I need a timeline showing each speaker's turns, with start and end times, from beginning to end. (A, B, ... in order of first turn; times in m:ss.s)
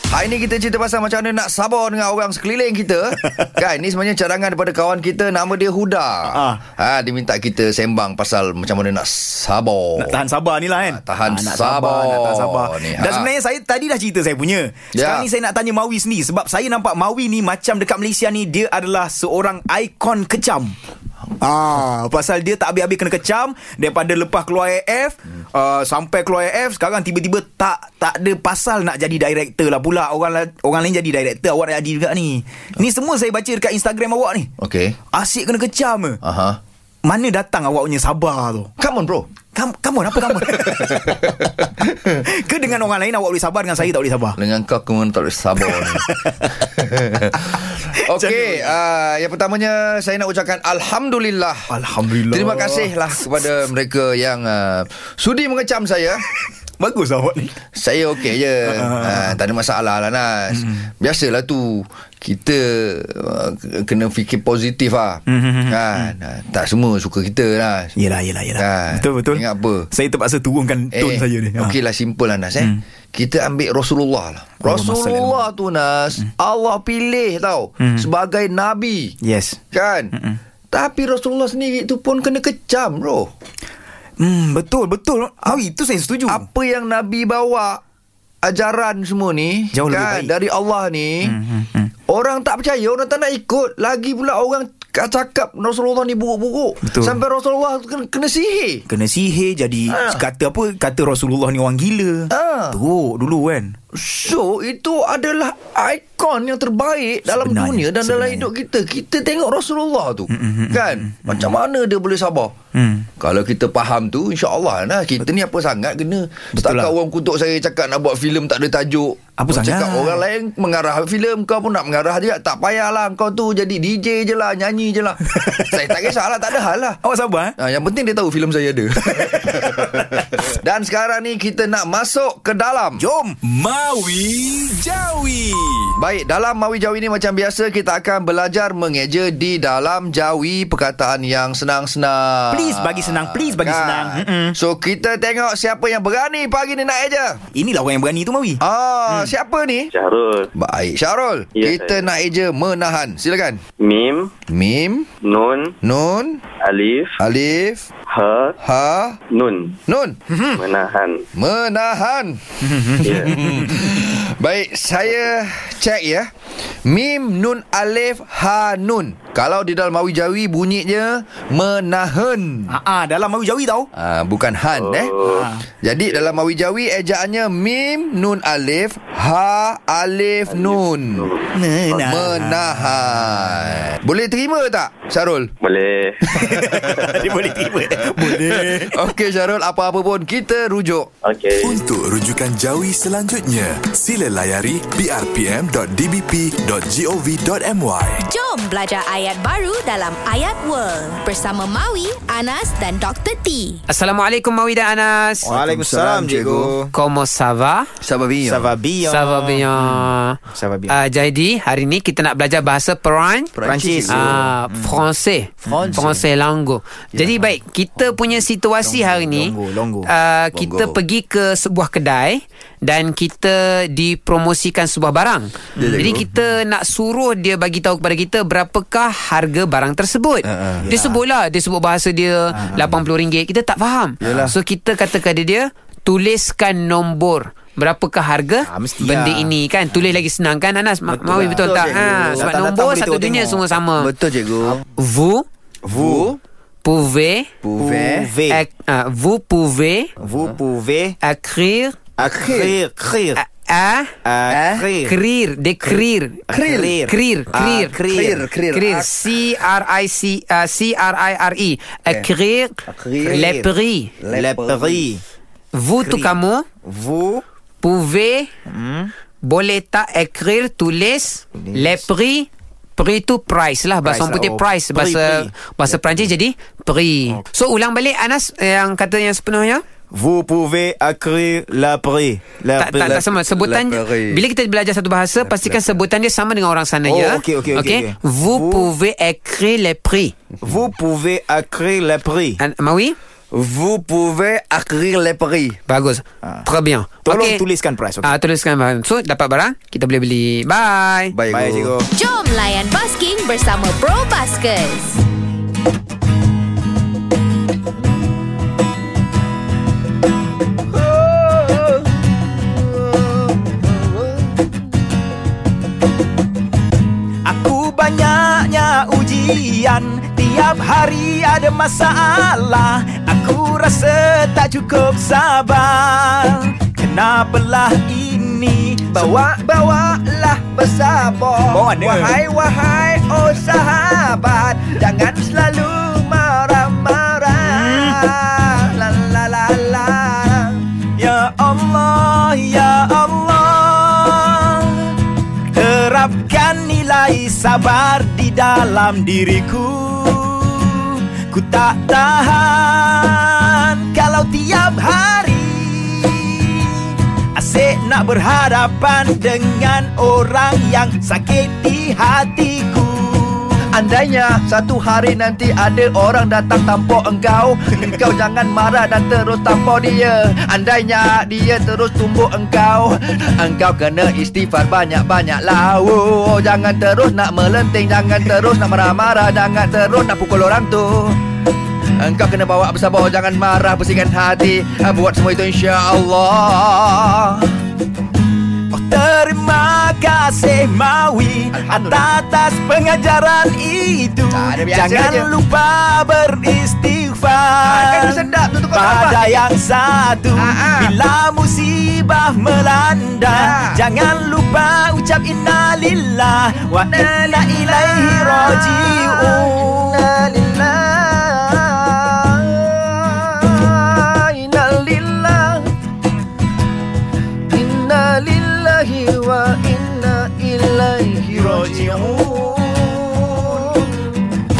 0:00.1-0:10.2 A
0:06.3-0:06.6 B
0:10.0-0:20.8 B
0:10.8-0:13.3 A
0:14.9-0:15.3 A
0:21.4-0:34.5 B
0:34.6-0:35.0 A
0:35.1-0:36.2 B
0:36.2-0:36.6 A
0:37.0-0:38.7 B
0:38.8-0:39.3 A
0:39.5-0:41.4 B
0:40.3-0:42.1 A
0:42.2-0:44.4 B
0:44.4-0:51.7 A
0:45.7-0:46.5 B
0:47.7-0:48.7 B
0:51.7-0:52.9 B
0:52.3-0:56.2 A
0:56.8-0:57.6 B
0:57.7-1:08.0 A
0:58.6-0:59.3 B
1:05.3-1:06.1 B
1:08.0-1:11.7 B
1:08.6-1:09.9 A
1:10.9-1:19.2 A
1:14.6-1:15.4 B
1:17.8-1:18.1 B
1:19.2-1:19.6 B
1:19.7-1:20.1 A
1:20.7-1:23.3 A
1:24.2-1:26.4 B
1:26.3-1:27.8 A
1:28.4-1:31.4 A
1:29.7-1:30.3 B
1:31.2-1:31.9 B
1:32.1-1:38.8 A
1:36.9-1:37.1 B
1:38.9-1:43.8 B
1:39.9-1:40.2 A
1:42.3-1:42.8 A
1:43.9-1:52.5 A
1:47.3-1:48.5 B
1:50.3-1:51.5 B
1:52.7-1:53.1 B
1:53.2-2:07.0 A
1:56.5-1:56.9 B
1:59.4-2:00.2 B
2:05.3-2:05.9 B
2:07.0-2:07.6 B
2:07.6-2:13.1 A
2:09.1-2:10.0 B
2:13.0-2:15.9 B
2:16.0-2:27.4 A
2:22.5-2:24.5 B
2:27.5-2:28.6 B
2:28.6-2:29.9 A
2:29.9-2:30.5 C
2:30.5-2:33.6 A
2:31.5-2:32.0 C
2:33.8-2:34.3 C
2:34.5-2:35.1 A
2:35.2-2:35.7 C
2:35.8-2:36.4 A
2:36.6-2:37.2 C
2:37.2-2:37.8 A
2:38.1-2:38.5 C
2:38.6-2:39.2 A
2:39.3-2:39.7 C
2:39.9-2:40.2 A
2:40.3-2:40.6 B
2:40.6-2:41.2 C
2:41.3-2:42.4 A
2:42.6-2:43.8 B
2:43.0-2:46.3 A
2:46.8-2:52.8 A
2:52.7-2:53.9 B
2:53.9-2:55.2 A
2:54.7-2:55.4 C
2:55.2-2:55.6 B
2:55.8-3:01.3 A
3:00.5-3:01.4 C
3:01.5-3:02.7 B
3:01.9-3:05.5 A
3:05.6-3:06.2 C
3:06.3-3:07.3 A
3:06.3-3:09.0 B
3:08.1-3:11.1 A
3:11.2-3:11.7 C
3:11.6-3:18.2 D
3:18.2-3:23.8 E
3:23.9-3:25.5 F
3:25.4-3:26.9 B
3:25.4-3:26.8 A
3:26.9-3:27.9 F
3:28.0-3:28.7 A
3:28.4-3:31.0 B
3:29.0-3:30.4 F
3:30.9-3:33.5 F
3:33.5-3:34.5 A
3:33.6-3:35.0 B
3:34.1-4:04.1 F
3:35.6-3:36.2 B
3:35.7-3:36.1 A
3:37.1-3:37.5 A
3:38.8-3:40.1 B
3:40.5-3:41.0 A
3:45.8-3:46.2 B
3:45.8-3:46.3 A
3:50.4-3:50.9 A
3:50.8-3:51.2 B
3:52.5-3:52.9 B
3:54.2-3:54.5 A
3:58.6-4:00.1 B
4:01.1-4:03.6 B
4:01.5-4:02.5 A
4:04.0-4:04.8 A
4:05.0-4:05.4 F
4:05.8-4:06.3 B
4:05.9-4:06.4 A
4:06.8-4:07.5 F
4:07.6-4:08.3 A
4:07.8-4:08.6 B
4:08.5-4:10.1 F
4:10.2-4:11.2 B
4:11.2-4:12.0 F
4:12.2-4:13.4 B
4:12.2-4:12.8 A
4:13.4-4:14.1 F
4:14.2-4:15.2 B
4:14.5-4:14.9 A
4:15.0-4:16.5 F
4:15.8-4:18.5 B
4:16.5-4:17.0 A
4:17.0-4:18.0 F
4:18.0-4:19.1 A
4:18.7-4:24.1 F
4:22.8-4:23.5 A
4:23.2-4:23.7 B
4:24.2-4:25.1 A
4:24.3-4:25.2 B
4:25.7-4:26.6 F
4:26.0-4:27.4 B
4:27.8-4:28.5 F
4:28.7-4:29.1 B
4:29.4-4:39.8 F
4:31.6-4:32.0 B
4:34.0-4:35.5 B
4:40.1-4:43.2 B
4:42.8-4:50.3 F
4:43.0-4:44.4 A
4:45.4-4:46.0 A
4:47.0-4:48.9 B
4:50.6-4:50.9 A
4:50.6-4:52.6 B
4:52.6-4:53.2 F
4:53.5-4:55.8 A
4:55.9-4:57.6 F
4:56.4-4:56.7 B
4:57.2-4:58.3 B
4:58.2-5:01.4 F
5:01.3-5:01.9 A
5:01.5-5:02.1 B
5:02.1-5:05.2 E
5:10.9-5:14.7 A
5:17.4-5:29.3 B
5:29.1-5:40.8 A
5:31.7-5:32.4 B
5:37.6-5:38.2 B
5:41.2-5:45.2 B
5:45.7-6:03.8 B
6:03.9-6:21.4 A
6:22.2-6:27.7 A
6:28.9-6:50.2 B
6:31.8-6:32.3 A
6:34.5-6:35.5 A
6:37.8-6:39.6 A
6:40.5-6:41.2 A
6:43.5-6:44.0 A
6:47.1-6:55.9 A
6:57.7-7:04.2 A
7:01.5-7:02.6 B